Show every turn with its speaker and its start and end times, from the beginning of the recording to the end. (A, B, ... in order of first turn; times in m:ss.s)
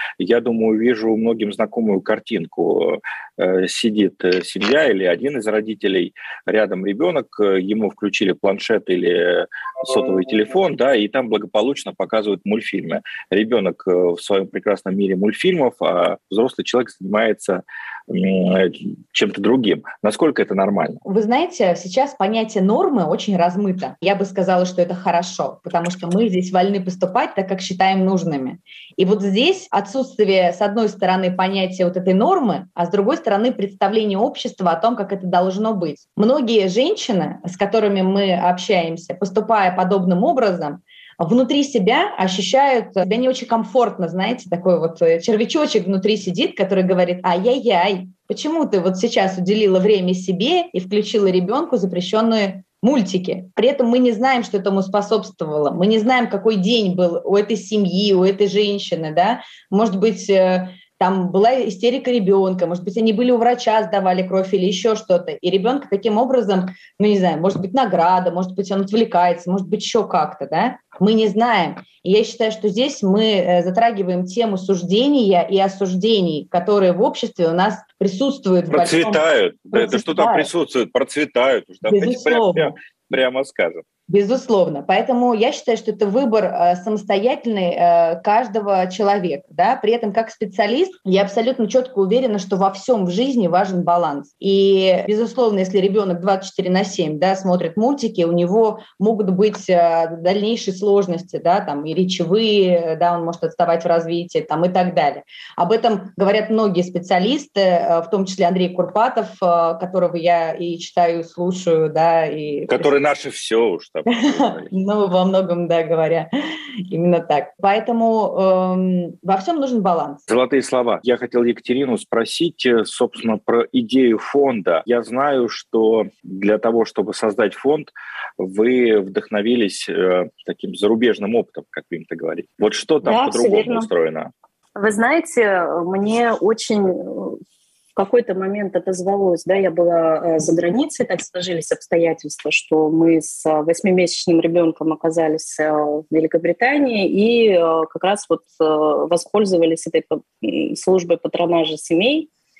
0:00.2-0:21.0 A
0:21.0-1:20.5 B
1:18.7-1:23.8 A
1:21.9-1:22.8 B
1:24.1-1:52.9 B
1:52.7-1:54.7 A
1:54.1-1:56.3 B
1:56.9-2:00.3 B
2:00.3-2:14.3 A
2:13.0-2:13.9 C
2:14.8-2:17.4 C
2:18.0-2:32.3 C